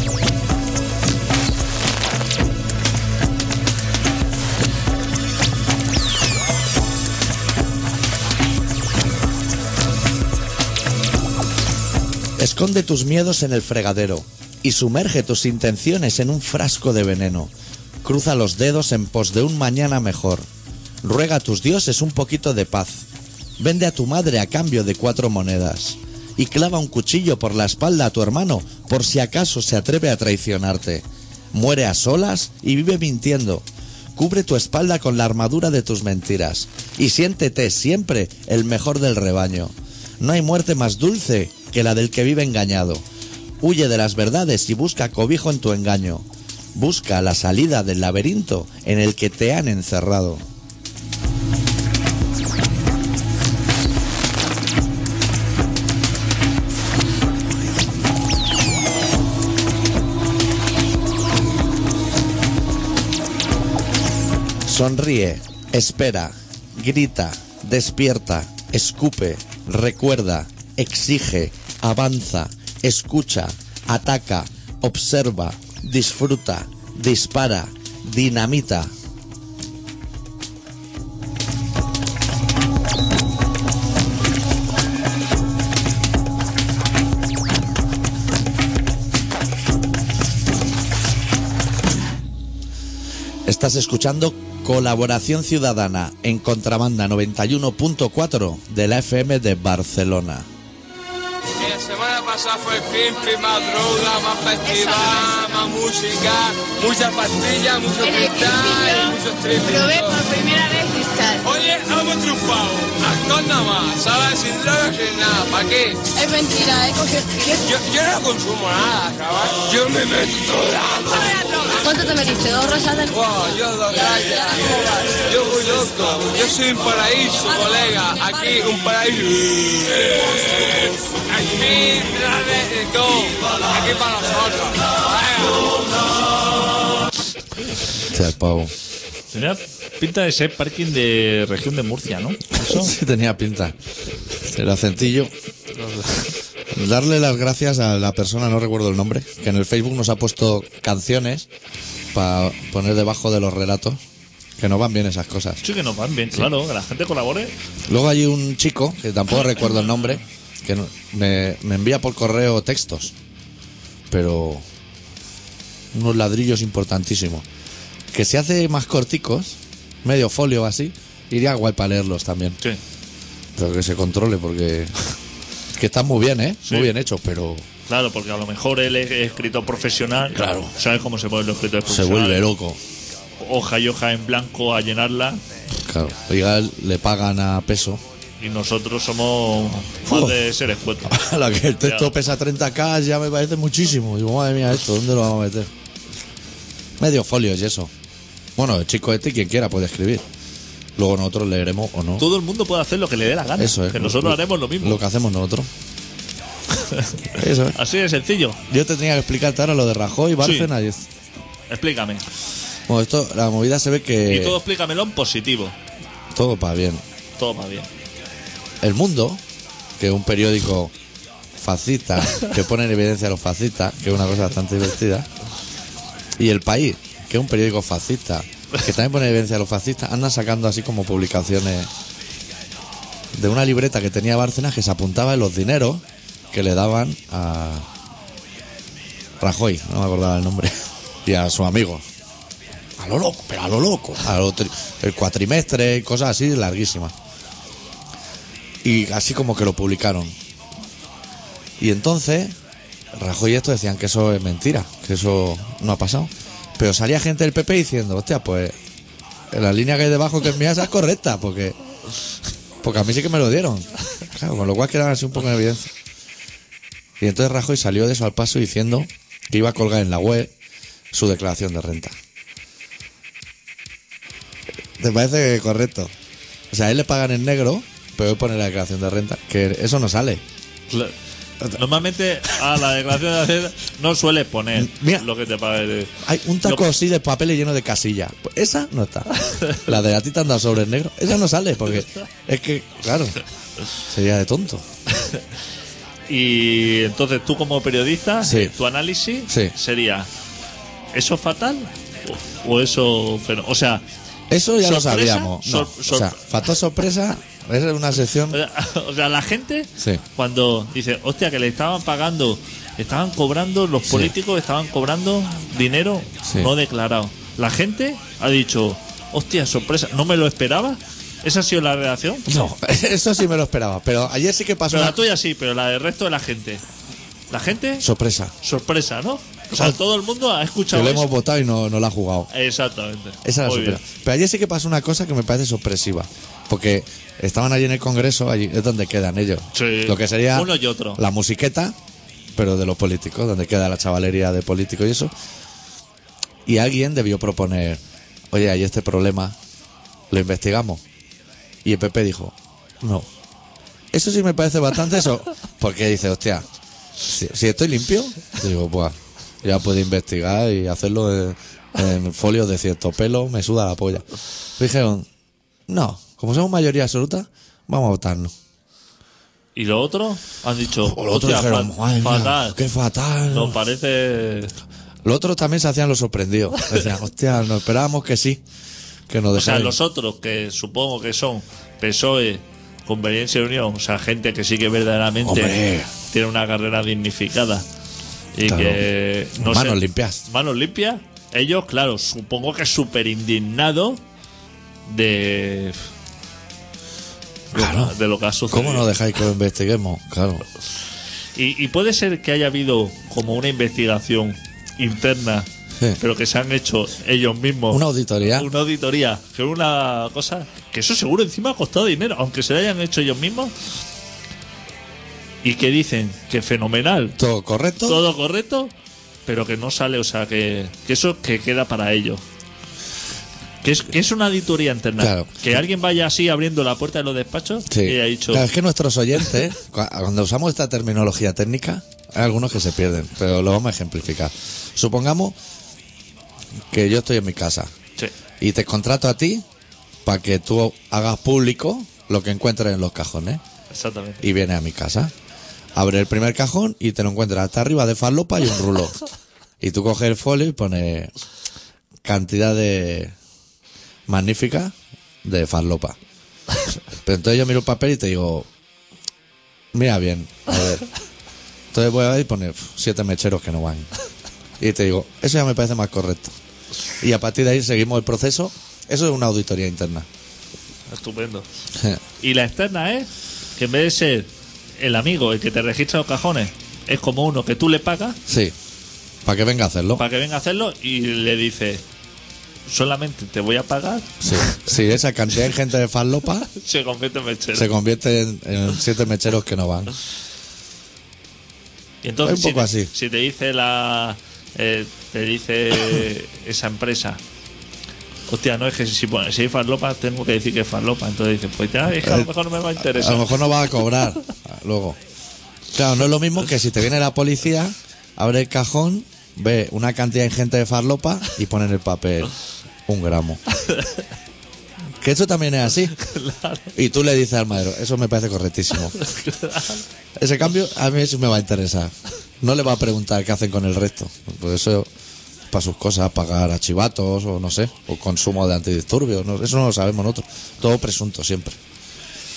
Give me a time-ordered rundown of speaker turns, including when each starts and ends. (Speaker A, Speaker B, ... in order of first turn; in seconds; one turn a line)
Speaker A: 12.4-17.5
Speaker A: 18.0-20.4
Speaker A: 21.0-23.1
Speaker A: 23.6-33.6
Speaker A: 34.1-43.0
Speaker A: 43.6-50.5
Speaker A: 64.7-78.9
Speaker A: 93.5-100.5
Speaker B: 101.6-110.2
Speaker C: 104.7-105.2
Speaker C: 108.0-111.5
Speaker B: 111.4-116.0
Speaker C: 116.1-117.7
Speaker B: 117.6-121.9
Speaker C: 121.8-123.2
Speaker B: 123.1-135.7
Speaker C: 123.9-124.8
Speaker A: 138.1-138.7
Speaker D: 139.3-142.9
Speaker A: 142.6-143.8
Speaker A: 144.4-145.3
Speaker D: 145.8-146.3
Speaker A: 146.7-151.5
Speaker A: 152.1-154.0
Speaker A: 154.6-155.6
Speaker D: 155.6-157.5
Speaker A: 157.9-163.1
Speaker A: 164.1-164.6
Speaker A: 165.9-167.4
Speaker A: 168.1-172.6
Speaker A: 173.6-174.9
Speaker A: 175.7-177.7
Speaker D: 176.7-176.9
Speaker D: 177.9-182.4
Speaker A: 180.3-180.7
Speaker A: 181.9-182.8
Speaker D: 183.4-185.4
Speaker A: 185.8-188.0
Speaker D: 188.4-191.2
Speaker A: 190.1-190.5
Speaker A: 191.1-195.7
Speaker D: 191.8-192.1
Speaker A: 197.0-197.9
Speaker A: 198.6-200.3
Speaker A: 201.0-202.3
Speaker D: 202.2-205.0
Speaker A: 203.6-205.7
Speaker D: 206.7-208.6
Speaker A: 207.3-207.8
Speaker A: 208.7-211.1
Speaker D: 210.4-210.7
Speaker D: 211.7-212.3
Speaker A: 212.9-214.6
Speaker D: 214.3-215.8
Speaker A: 216.3-217.0
Speaker D: 217.4-217.9
Speaker A: 218.8-219.4
Speaker A: 220.0-220.9
Speaker A: 221.6-225.3
Speaker A: 226.4-231.9
Speaker A: 233.3-237.9
Speaker A: 239.4-242.1
Speaker A: 243.0-247.1
Speaker A: 248.8-250.4
Speaker A: 251.8-252.6
Speaker A: 253.1-258.7
Speaker A: 259.5-261.8
Speaker A: 262.8-265.9
Speaker A: 267.2-270.5
Speaker A: 271.1-272.1
Speaker A: 275.0-276.1
Speaker A: 276.7-280.4
Speaker D: 280.9-281.1
Speaker D: 281.7-286.9
Speaker A: 284.8-285.3
Speaker A: 286.2-293.4
Speaker D: 289.4-289.8
Speaker A: 294.1-294.8
Speaker D: 295.1-295.4
Speaker D: 296.3-300.3
Speaker A: 298.4-298.7
Speaker A: 299.5-299.7
Speaker D: 301.1-304.0
Speaker A: 304.5-308.6
Speaker D: 304.8-306.4
Speaker D: 308.5-322.5
Speaker A: 314.1-314.3
Speaker A: 316.4-316.7
Speaker A: 322.4-325.2
Speaker D: 324.9-326.8
Speaker D: 327.5-328.1
Speaker A: 328.0-328.6
Speaker D: 328.6-331.3
Speaker A: 330.9-332.5
Speaker D: 332.5-334.0
Speaker A: 333.4-341.9
Speaker D: 339.7-341.2
Speaker A: 342.5-345.3
Speaker A: 346.6-349.6
Speaker A: 350.3-351.0
Speaker A: 351.8-353.3
Speaker A: 354.1-356.6
Speaker A: 357.2-364.2
Speaker A: 364.8-365.3
Speaker A: 365.9-368.5
Speaker D: 369.8-372.8
Speaker A: 371.0-373.8
Speaker D: 373.5-374.7
Speaker A: 375.2-378.6
Speaker A: 379.3-379.9
Speaker D: 379.6-387.8
Speaker A: 385.4-386.1
Speaker D: 388.6-394.2
Speaker A: 388.6-390.4
Speaker D: 395.1-395.9
Speaker D: 397.7-399.1
Speaker A: 397.7-398.1
Speaker A: 398.7-400.6
Speaker D: 401.6-405.7
Speaker D: 406.2-413.7
Speaker A: 407.9-408.7
Speaker D: 415.6-417.4
Speaker A: 417.4-418.2
Speaker D: 418.1-418.9
Speaker D: 419.5-422.4
Speaker D: 423.8-428.7
Speaker A: 425.2-425.7
Speaker A: 427.9-435.6
Speaker A: 436.9-437.9
Speaker A: 438.6-439.6
Speaker A: 440.2-443.6
Speaker D: 443.9-444.4
Speaker A: 444.4-445.3
Speaker A: 445.9-449.1
Speaker A: 449.8-451.3
Speaker A: 452.2-453.3
Speaker A: 454.3-456.2
Speaker A: 457.2-458.7
Speaker A: 459.9-461.1
Speaker A: 461.9-464.1
Speaker A: 464.8-466.6
Speaker A: 467.2-470.3
Speaker D: 471.1-471.6
Speaker D: 472.4-478.4
Speaker A: 478.5-478.7
Speaker A: 479.4-480.2
Speaker D: 480.1-482.0
Speaker D: 482.9-484.9
Speaker A: 484.4-486.7
Speaker D: 486.7-487.9
Speaker A: 487.7-490.1
Speaker D: 492.2-497.4
Speaker A: 492.4-493.1
Speaker D: 498.5-503.6
Speaker A: 502.2-505.2
Speaker A: 505.9-512.5
Speaker A: 513.1-513.6
Speaker D: 513.8-514.2
Speaker A: 515.2-516.1
Speaker D: 516.1-516.9
Speaker A: 516.9-519.2
Speaker D: 519.1-520.0
Speaker A: 520.4-525.1
Speaker A: 525.7-531.8